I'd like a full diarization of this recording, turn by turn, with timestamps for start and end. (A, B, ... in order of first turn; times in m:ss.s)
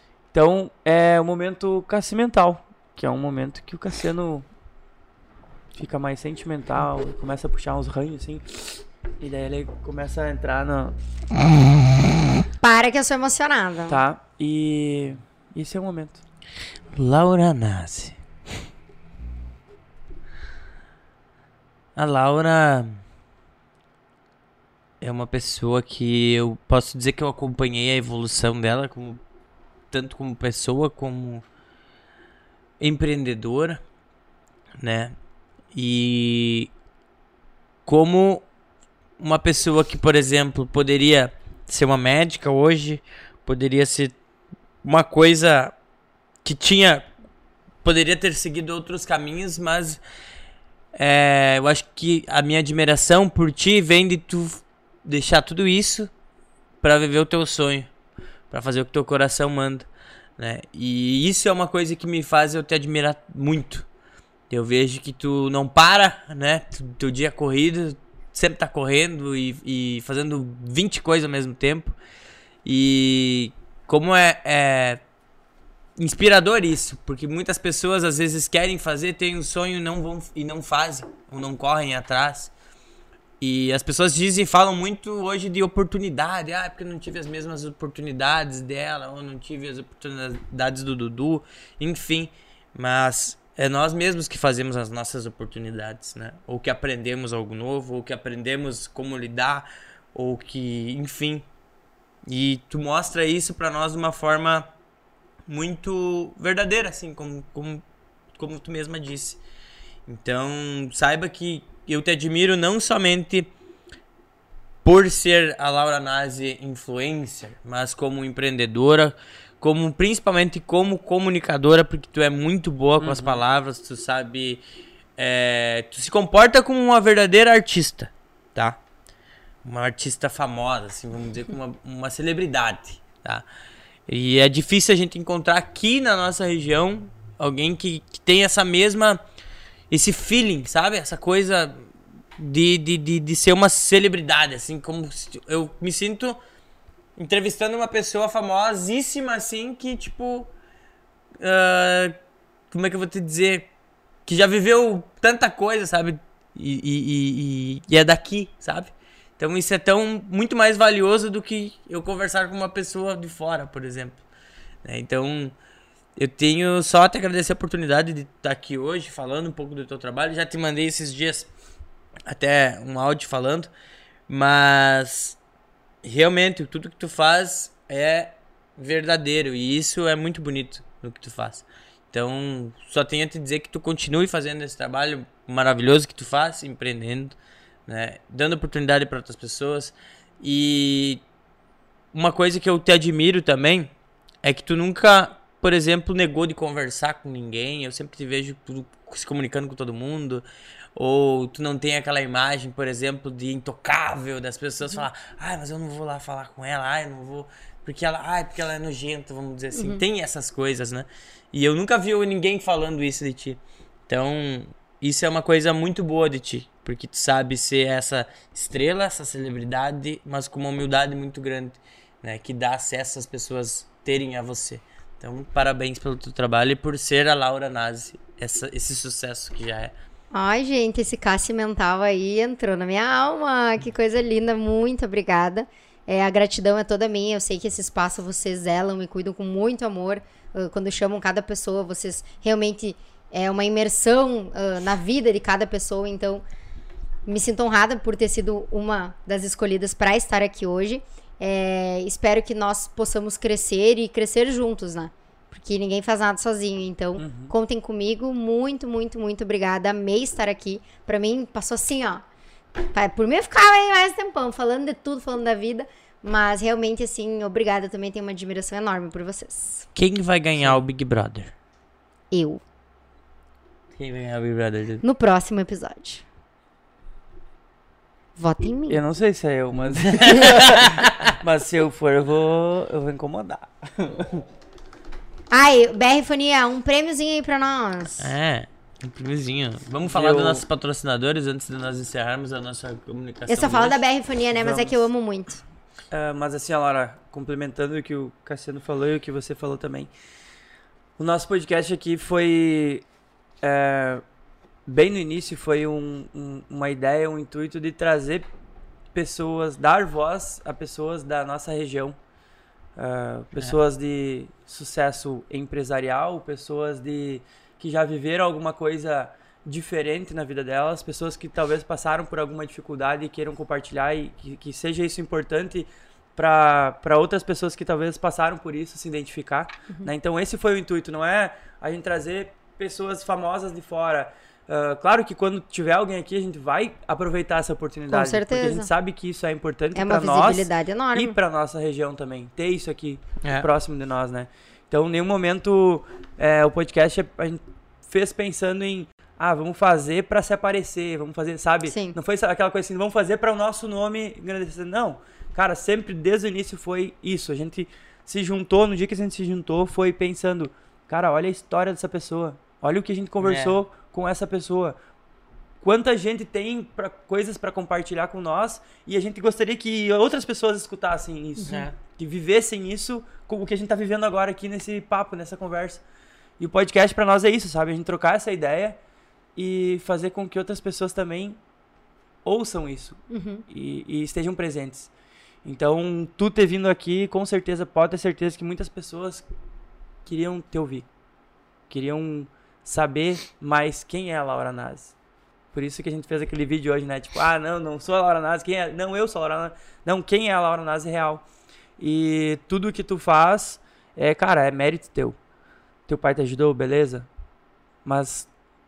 0:00.3-0:04.4 A
0:05.8-0:08.4 A
0:09.2-0:10.9 A
0:12.6-0:14.0 B
0:13.9-0:16.2 A
0:16.9-0:18.2 C
0:22.0-0:23.0 C
0:25.0-0:29.2 C
0:29.9-0:31.4 C
0:32.8-0:33.8 C
0:34.8-0:35.1 C
0:35.7-0:36.7 C
0:37.8-0:38.4 C
0:39.2-0:44.2 C
0:44.8-0:45.7 C
0:46.4-0:47.1 C
0:47.8-0:50.0 C
0:50.9-0:56.1 C
0:56.8-0:57.9 C
0:58.5-1:03.9 C
1:04.5-1:12.0 C
1:12.6-1:15.0 C
1:16.0-1:22.5 C
1:23.4-1:41.4 C
1:42.2-1:44.7 C
1:45.5-1:47.8 C
1:48.4-1:49.4 C
1:50.0-1:53.5 C
1:54.8-2:04.6 C
2:03.0-2:03.4 A
2:05.2-2:08.8 C
2:09.6-2:13.4 C
2:14.1-2:19.2 C
2:19.9-2:26.4 C
2:27.2-2:30.5 C
2:31.4-2:32.2 C
2:32.7-2:33.7 C
2:34.2-2:44.2 C
2:44.8-2:45.6 C
2:46.2-2:51.5 C
2:52.2-2:53.7 C
2:54.3-2:55.4 C
2:56.0-3:11.2 C
3:12.1-3:20.4 C
3:20.9-3:49.9 C
3:29.7-3:30.0 B
3:50.3-4:06.4 B
4:07.2-4:22.2 B
4:17.2-4:17.5 A
4:22.9-4:29.8 B
4:29.9-4:31.5 C
4:32.3-4:32.6 B
4:34.0-4:35.0 C
4:35.0-4:36.2 B
4:38.4-4:39.0 B
4:38.9-4:44.4 A
4:39.9-4:41.4 C
4:45.5-4:48.3 B
4:48.2-4:54.0 C
4:50.1-4:50.6 A
4:53.5-4:55.6 B
4:54.6-4:55.0 A
4:56.1-5:00.1 A
5:01.2-5:03.0 A
5:03.6-5:04.2 A
5:04.8-5:08.5 A
5:09.1-5:12.2 A
5:13.0-6:05.0 A
5:38.1-5:38.9 B
5:39.9-5:41.4 B
5:43.4-5:43.7 C
5:51.8-5:52.2 B
6:03.4-6:03.8 C
6:05.8-6:16.0 A
6:11.7-6:12.0 C
6:16.6-6:19.0 A
6:19.6-6:21.6 A
6:22.4-6:25.1 A
6:23.3-6:23.6 B
6:25.6-6:29.4 A
6:30.2-6:31.0 A
6:31.9-6:35.1 A
6:35.7-6:41.4 A
6:42.0-6:45.4 A
6:46.1-6:47.3 A
6:48.0-6:48.5 A